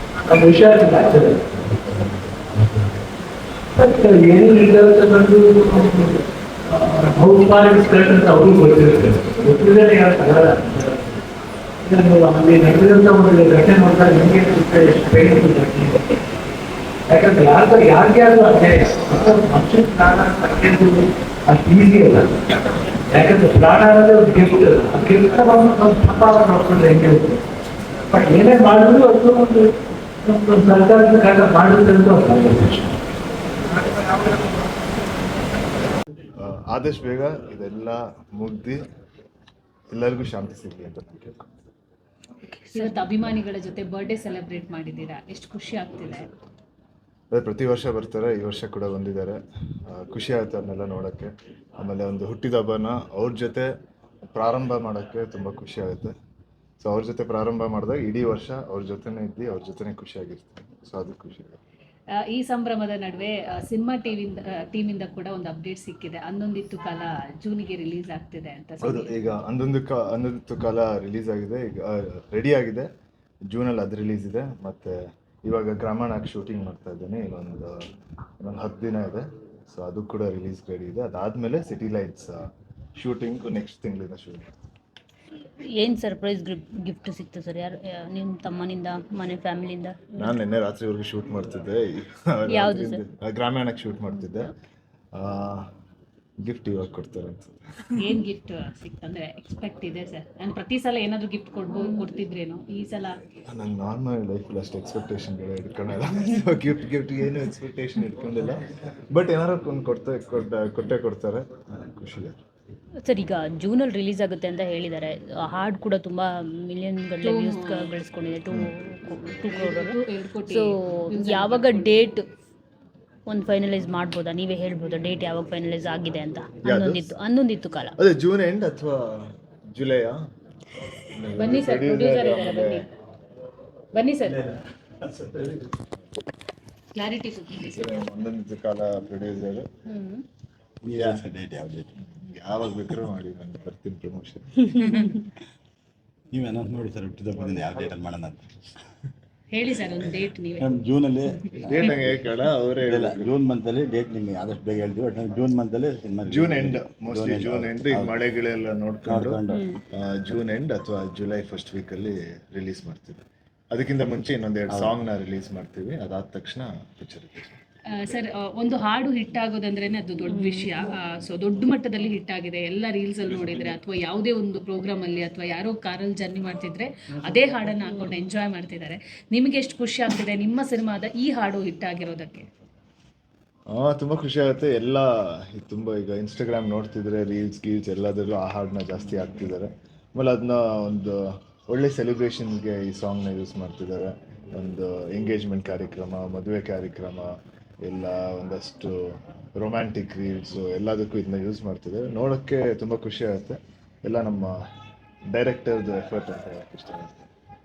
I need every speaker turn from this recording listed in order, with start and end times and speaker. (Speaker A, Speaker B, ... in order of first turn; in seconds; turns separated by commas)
Speaker A: 0.3-1.6, Speaker A: 3.8-6.2, Speaker A: 6.7-11.2, Speaker A: 11.8-16.2, Speaker A: 17.1-22.3, Speaker A: 23.1-27.4, Speaker A: 28.1-33.0, Speaker B: 36.4-38.8, Speaker B: 39.9-41.5, Speaker C: 42.5-43.0, Speaker D: 42.7-46.3, Speaker B: 47.3-53.7, Speaker B: 54.3-56.1, Speaker B: 56.8-61.6, Speaker D: 62.2-69.2, Speaker B: 68.8-72.9, Speaker B: 73.5-77.8, Speaker B: 78.4-82.4, Speaker B: 83.0-84.5, Speaker C: 85.6-90.3, Speaker B: 90.2-94.5, Speaker C: 92.5-93.0, Speaker B: 95.2-95.7, Speaker B: 96.4-97.5, Speaker D: 98.0-103.2, Speaker B: 103.5-112.4, Speaker C: 113.0-122.3, Speaker D: 117.2-117.9, Speaker D: 119.5-122.1, Speaker C: 123.3-128.0, Speaker B: 126.6-127.1, Speaker B: 128.0-130.3, Speaker B: 131.1-132.9, Speaker D: 131.4-132.9, Speaker D: 133.9-134.5, Speaker E: 135.2-135.5, Speaker D: 136.9-137.9, Speaker B: 137.6-139.7, Speaker D: 139.9-140.2, Speaker E: 140.8-141.9, Speaker B: 141.0-141.2, Speaker B: 142.0-144.7, Speaker C: 144.8-145.2, Speaker D: 144.8-145.1, Speaker E: 146.3-148.5, Speaker D: 149.5-150.8, Speaker E: 150.6-152.2, Speaker B: 151.6-153.3, Speaker E: 152.9-158.2, Speaker B: 156.2-159.4, Speaker E: 159.1-159.7, Speaker C: 159.5-159.8, Speaker B: 159.9-167.5, Speaker E: 164.7-165.0, Speaker D: 168.0-182.5, Speaker C: 170.3-170.7, Speaker B: 183.7-204.5, Speaker B: 205.3-207.2